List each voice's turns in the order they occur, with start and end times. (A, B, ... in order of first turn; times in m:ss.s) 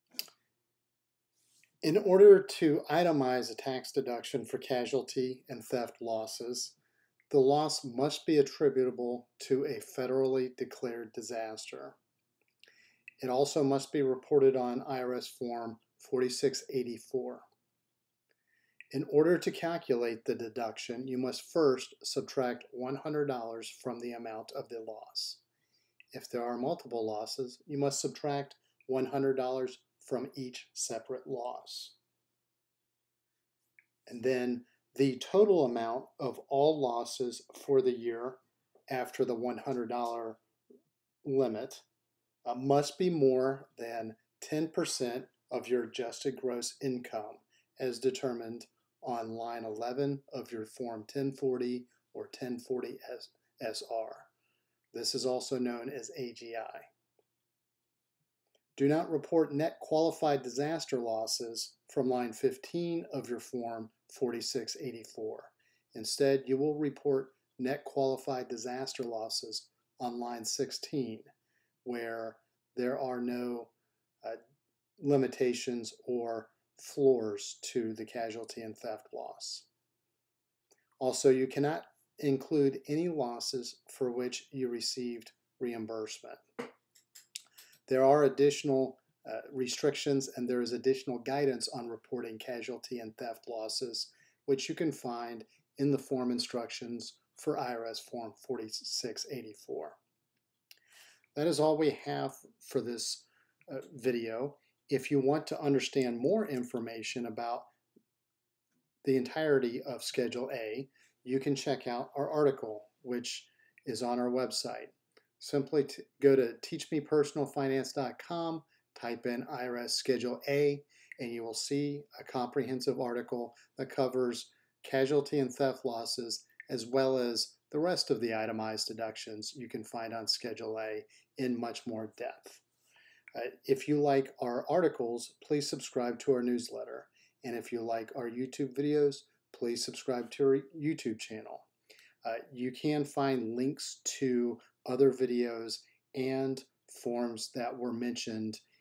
0:01.8-0:06.7 A
0:07.3-0:12.0 A
0:13.2-0:17.4 A
0:18.9-0:25.4 A
0:26.1-0:32.0 A
0:34.1-0:40.4 A
0:41.2-0:41.8 A
0:42.4-0:54.3 A
0:54.9-0:56.9 A
0:58.8-1:11.3 A
1:11.8-1:13.7 A
1:15.0-1:19.7 A
1:21.0-1:26.4 A
1:27.9-1:40.0 A
1:41.3-1:47.7 A
1:49.0-2:12.6 A
2:13.3-2:21.7 A
2:22.2-2:28.6 A